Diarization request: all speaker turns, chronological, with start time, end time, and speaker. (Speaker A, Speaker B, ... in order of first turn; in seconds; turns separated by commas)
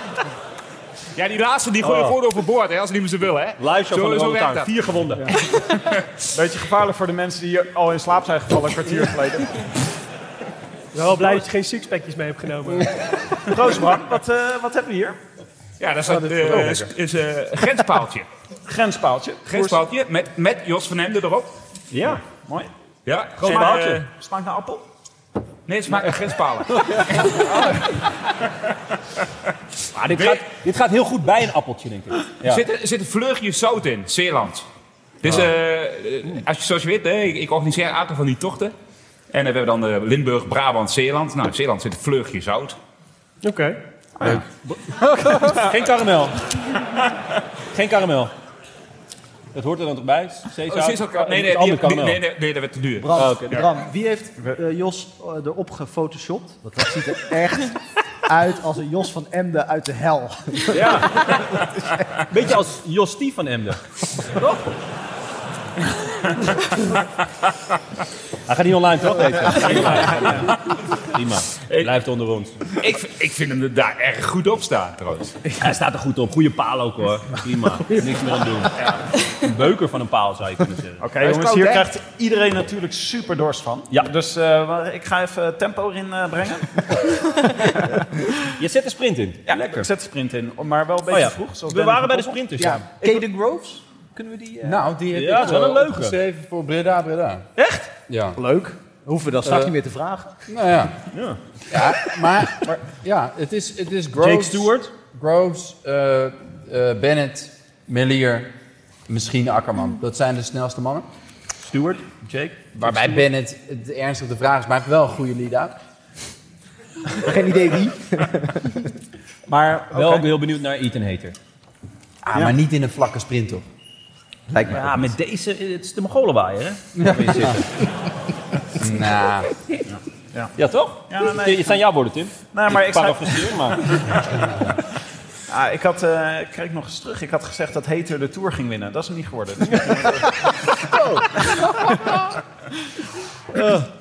Speaker A: 1.1-4.8, Speaker B: 1.8-2.2, Speaker B: 3.6-5.3, Speaker A: 5.6-6.1, Speaker C: 6.3-9.7, Speaker D: 10.9-12.9, Speaker C: 13.4-15.2, Speaker A: 15.8-18.3, Speaker C: 18.6-19.8, Speaker A: 19.5-21.5, Speaker B: 21.9-22.2, Speaker A: 23.1-24.1, Speaker B: 23.4-24.0, Speaker C: 23.4-24.8, Speaker A: 25.7-27.6, Speaker C: 27.4-27.8, Speaker B: 29.9-32.6, Speaker A: 30.1-30.4, Speaker A: 32.3-34.7, Speaker A: 35.2-38.7, Speaker A: 39.3-42.8, Speaker D: 43.4-43.8, Speaker B: 45.3-46.5, Speaker B: 47.7-48.3, Speaker B: 49.5-52.2, Speaker A: 50.7-53.6, Speaker E: 53.0-62.0, Speaker B: 53.1-53.6, Speaker B: 60.7-61.4, Speaker B: 62.3-63.8, Speaker B: 64.3-64.5, Speaker B: 68.5-72.6, Speaker A: 72.7-75.4, Speaker B: 75.6-81.2, Speaker C: 81.0-87.4, Speaker A: 81.2-81.8, Speaker B: 88.6-89.9, Speaker C: 89.5-92.4, Speaker B: 91.1-93.0, Speaker E: 92.6-94.8, Speaker F: 94.6-97.4, Speaker B: 95.1-96.2, Speaker B: 97.6-97.9, Speaker F: 98.1-98.4, Speaker E: 98.3-100.4, Speaker F: 99.4-99.7, Speaker F: 100.5-101.0, Speaker B: 101.1-101.4, Speaker F: 101.7-108.5, Speaker B: 104.1-104.9, Speaker F: 109.1-111.1, Speaker B: 111.6-113.2, Speaker F: 112.8-115.8, Speaker E: 117.1-118.9, Speaker C: 119.5-120.3, Speaker B: 119.9-121.3, Speaker F: 122.2-123.6, Speaker E: 124.5-125.0, Speaker B: 124.6-127.6, Speaker F: 127.0-127.6, Speaker F: 128.8-129.5, Speaker C: 129.9-130.5, Speaker B: 130.6-133.9, Speaker C: 131.1-131.8, Speaker C: 132.5-133.7, Speaker C: 135.5-142.1, Speaker B: 143.5-143.9